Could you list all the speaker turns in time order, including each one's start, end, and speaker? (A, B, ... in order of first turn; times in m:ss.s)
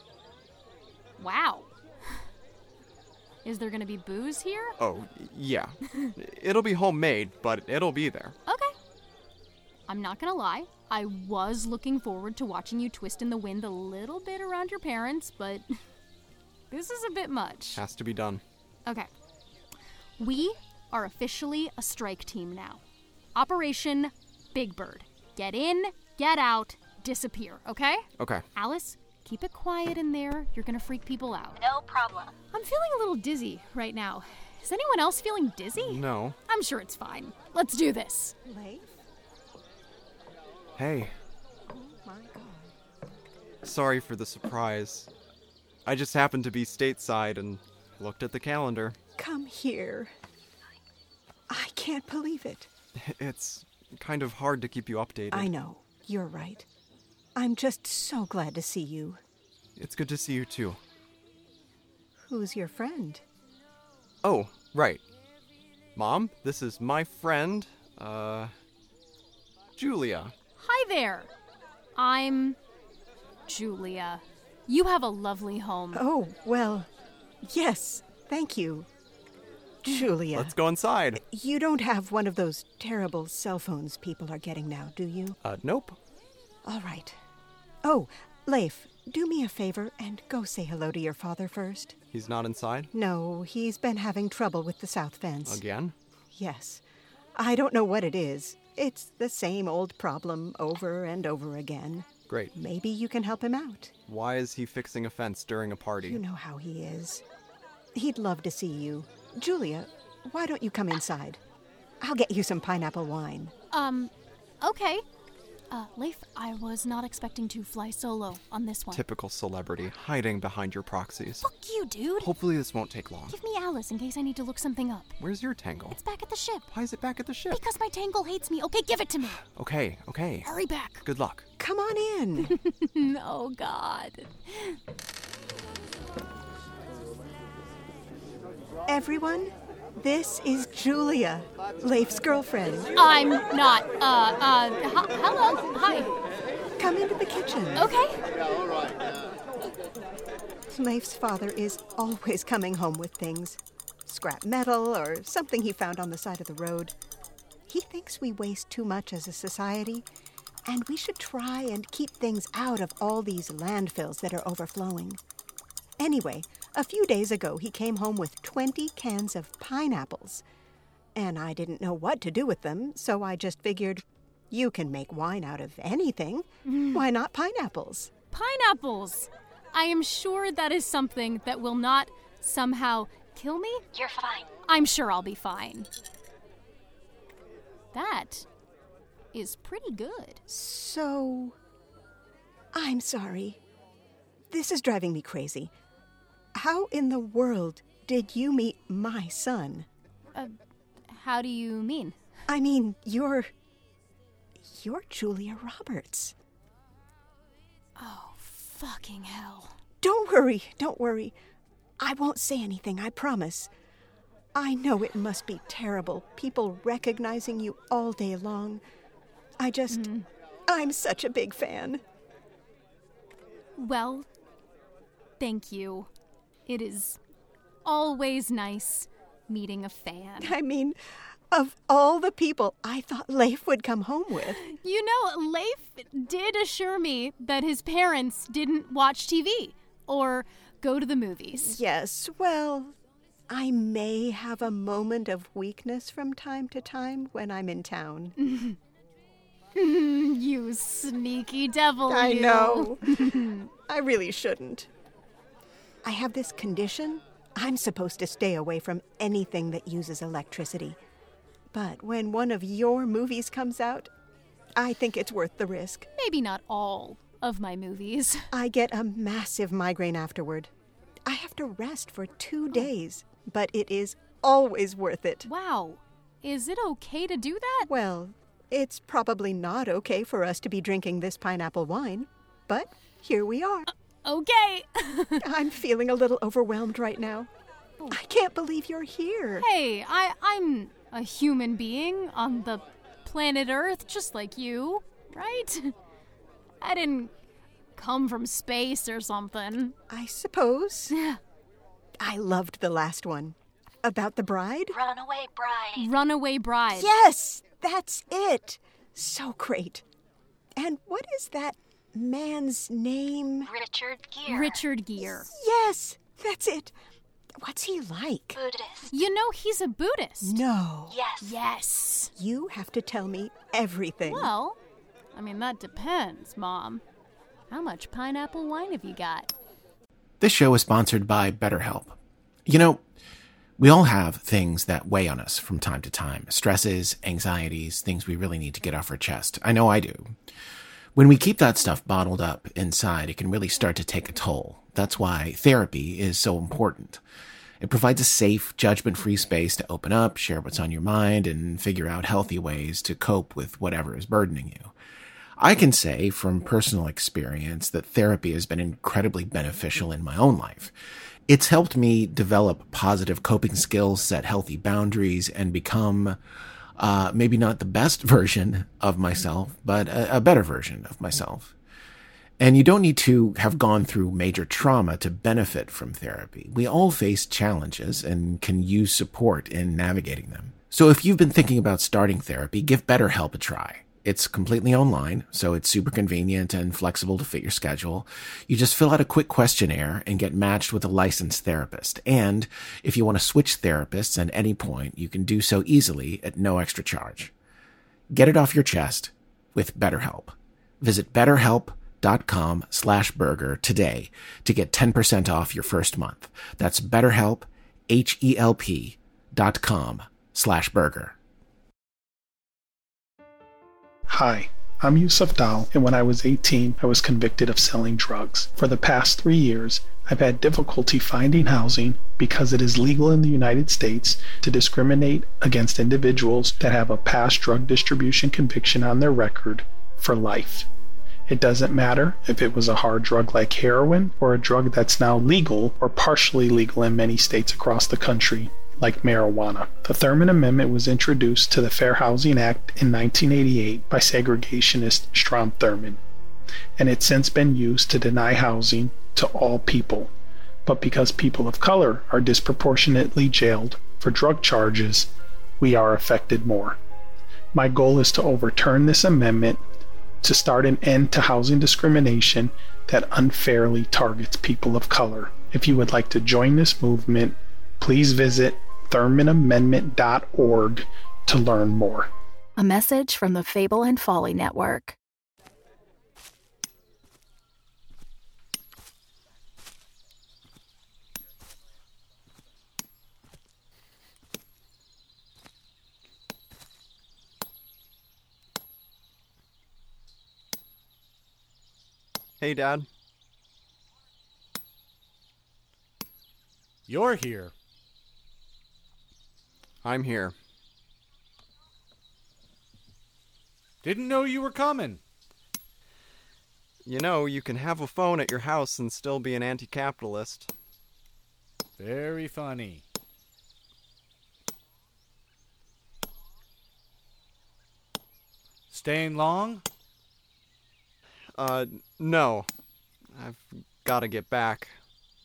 0:01.2-0:01.7 A
0:03.4-0:04.8 A
0:04.8-0:08.4 B
0:08.5-0:08.8 A
0:09.9-0:15.7 A
0:16.7-0:17.8 A
0:17.8-0:18.4 B
0:20.2-0:22.8 A
0:23.4-0:31.6 A
0:28.2-0:28.5 B
0:31.6-0:32.4 C
0:32.5-0:38.4 A
0:35.8-0:36.4 B
0:38.5-0:39.0 D
0:40.8-0:41.1 B
0:41.7-0:42.7 D
0:43.6-0:45.1 B
0:45.9-0:49.0 B
0:49.2-0:50.1 D
0:51.5-0:52.7 D
0:53.0-0:55.5 B
0:55.3-0:56.7 D
0:57.4-0:59.2 D
0:59.8-1:00.8 B
1:02.2-1:03.2 D
1:04.2-1:05.0 B
1:06.0-1:08.5 B
1:09.8-1:10.3 B
1:10.6-1:11.3 A
1:12.0-1:12.6 A
1:13.5-1:16.0 A
1:15.9-1:16.9 D
1:17.4-1:18.9 D
1:19.8-1:20.5 D
1:20.3-1:21.2 B
1:21.2-1:25.4 D
1:25.4-1:26.0 B
1:26.6-1:27.2 D
1:27.8-1:32.0 D
1:32.1-1:32.9 B
1:32.9-1:35.6 D
1:35.4-1:36.0 B
1:36.3-1:36.8 D
1:37.4-1:43.9 D
1:44.1-1:46.2 B
1:46.0-1:47.2 D
1:47.9-1:51.4 D
1:52.0-1:53.5 D
1:53.7-1:55.0 A
1:55.7-1:59.0 A
1:58.9-2:01.5 B
2:01.4-2:02.3 A
2:02.2-2:03.4 B
2:03.3-2:05.2 A
2:05.2-2:06.0 B
2:05.9-2:06.7 A
2:06.7-2:07.6 B
2:07.5-2:09.4 A
2:09.5-2:10.5 B
2:10.4-2:11.0 A
2:11.0-2:11.5 B
2:11.6-2:12.6 D
2:12.4-2:14.8 A
2:18.9-2:22.9 D
2:23.0-2:26.2 A
2:26.8-2:27.9 D
2:27.8-2:28.2 A
2:30.7-2:36.9 D
2:37.7-2:40.0 D
2:40.7-2:45.2 D
2:46.0-2:50.4 D
2:51.2-2:58.1 D
2:56.7-2:57.0 A
2:58.3-3:03.8 A
3:03.9-3:04.5 C
3:04.7-3:05.9 A
3:07.9-3:08.5 A
3:09.3-3:10.4 A
3:10.5-3:11.6 D
3:12.7-3:13.6 D
3:14.5-3:15.7 D
3:16.6-3:19.9 D
3:21.1-3:22.2 A
3:22.5-3:23.5 D
3:24.7-3:26.3 D
3:28.0-3:29.8 A
3:30.0-3:31.4 D
3:32.0-3:33.7 D
3:34.6-3:38.8 D
3:39.6-3:40.1 D
3:39.9-3:40.3 A
3:40.7-3:42.0 D
3:43.8-3:44.3 A
3:45.4-3:46.1 A
3:46.7-3:47.2 A
3:47.8-3:50.6 A
3:50.4-3:51.0 D
3:51.5-3:54.6 D
3:54.6-4:01.8 A
4:01.6-4:03.0 D
4:03.5-4:08.4 D
4:08.4-4:08.8 A
4:09.8-4:13.6 A
4:12.1-4:14.9 D
4:16.0-4:21.0 D
4:21.7-4:24.1 D
4:24.8-4:26.1 D
4:26.2-4:28.5 A
4:28.5-4:30.7 D
4:31.3-4:35.5 D
4:35.4-4:37.9 A
4:37.9-4:43.9 D
4:44.2-4:45.5 A
4:45.4-4:47.5 D
4:48.1-4:49.7 D
4:49.6-4:56.0 A
4:56.8-4:57.3 A
4:58.0-5:00.0 A
5:00.1-5:01.1 D
5:01.1-5:01.4 A
5:02.2-5:05.0 D
5:04.9-5:06.1 C
5:06.0-5:07.1 A
5:06.9-5:10.0 D
5:10.8-5:13.7 D
5:13.6-5:14.8 C
5:14.5-5:15.5 A
5:15.2-5:16.9 D
5:17.6-5:18.6 D
5:18.6-5:19.1 C
5:19.1-5:20.6 A
5:20.4-5:21.2 D
5:21.1-5:21.6 C
5:21.4-5:22.3 A
5:22.4-5:24.5 D
5:24.2-5:24.8 A
5:25.3-5:27.0 A
5:27.7-5:29.5 A
5:30.4-5:33.0 E
5:33.8-5:40.3 E
5:41.2-5:47.2 E
5:47.8-5:54.9 E
5:55.6-6:00.9 E
6:01.5-6:06.4 E
6:07.0-6:11.7 E
6:12.6-6:37.5 E
6:38.3-6:51.4 E
6:54.3-7:10.9 F
7:11.5-7:26.2 F
7:27.0-7:30.3 F
7:30.9-7:37.0 F
7:37.7-7:39.8 F
7:40.4-7:52.3 F
7:52.8-7:55.2 G
8:12.6-8:13.1 B
8:17.1-8:17.7 H
8:20.0-8:20.6 B
8:24.0-8:25.2 H
8:27.1-8:30.7 B
8:32.0-8:33.0 H
8:38.9-8:39.8 H
8:41.6-8:42.7 B
8:43.3-8:45.0 B